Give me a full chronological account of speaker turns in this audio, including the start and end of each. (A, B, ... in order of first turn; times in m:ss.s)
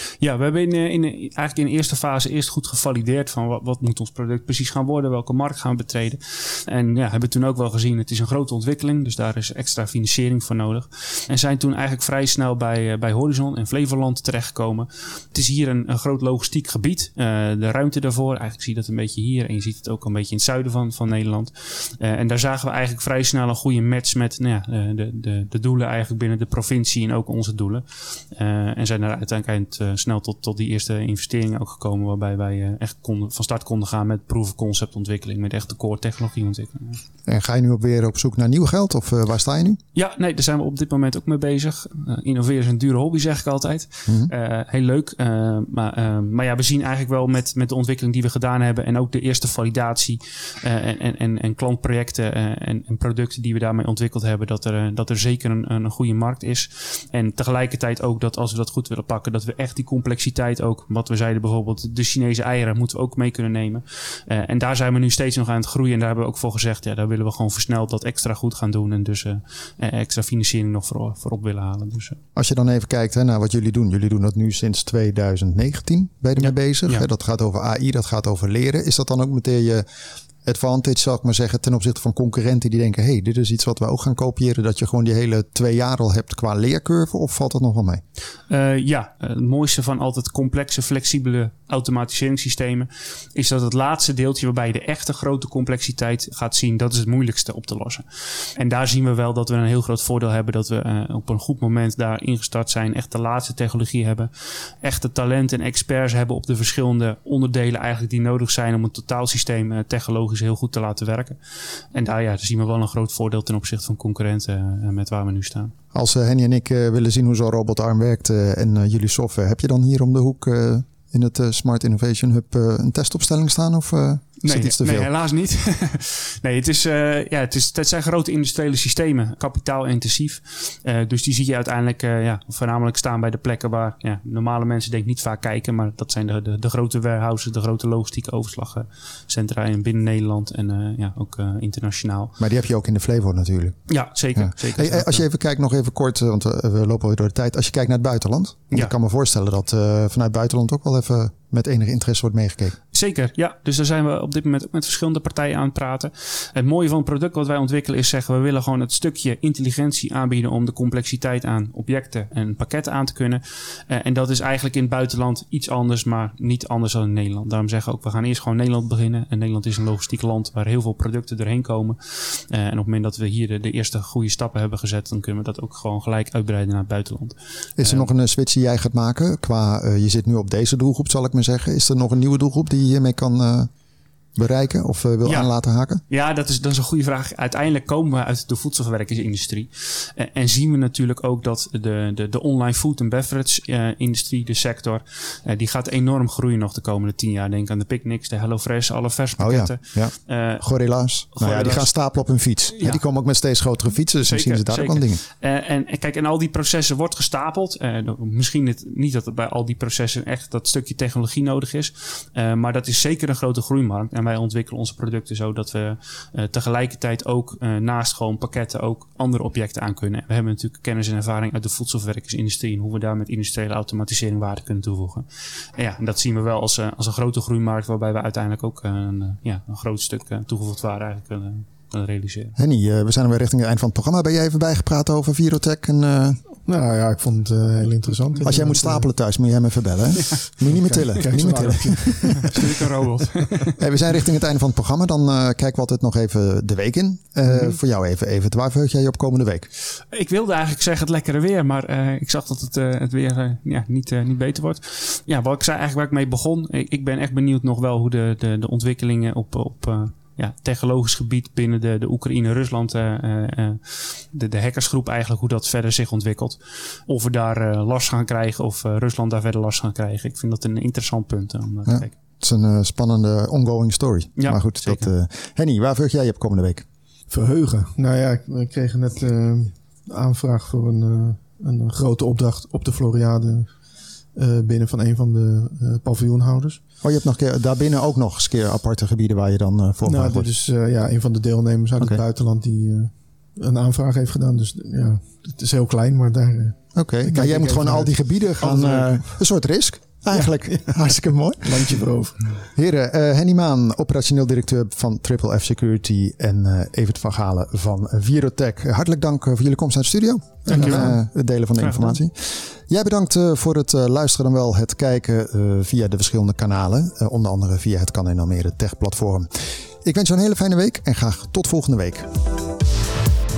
0:00.2-0:37.0 A
0:37.3-0:39.8 B
0:39.9-1:12.2 A
0:44.1-0:44.3 B
1:12.3-1:19.8 B
1:16.4-1:17.0 A
1:20.4-1:28.0 B
1:28.5-1:51.4 A
1:51.9-1:55.7 A
1:55.9-2:05.1 B
2:04.4-2:22.3 A
2:22.4-2:23.8 B
2:23.9-2:25.2 A
2:24.3-2:32.8 B
2:32.9-2:58.1 A
2:57.8-3:03.7 B
3:04.3-3:06.0 B
3:05.2-3:05.5 A
3:06.1-3:20.6 A
3:19.4-3:25.2 B
3:21.3-3:21.9 A
3:22.7-3:23.0 A
3:24.2-3:52.6 A
3:52.6-3:56.4 B
3:56.6-3:59.1 C
3:58.4-4:02.7 B
4:00.7-4:02.6 C
4:02.4-4:03.7 A
4:03.8-4:09.7 B
4:10.1-4:32.1 A
4:31.8-4:36.8 B
4:34.4-4:35.1 A
4:37.3-4:43.7 C
4:44.3-4:46.8 C
4:47.0-4:50.5 B
4:50.0-4:59.3 C
4:56.9-5:01.9 B
5:00.3-5:01.0 C
5:01.6-5:02.5 C
5:02.7-5:22.3 B
5:10.6-5:11.2 A
5:10.7-5:11.2 C
5:11.8-5:12.2 A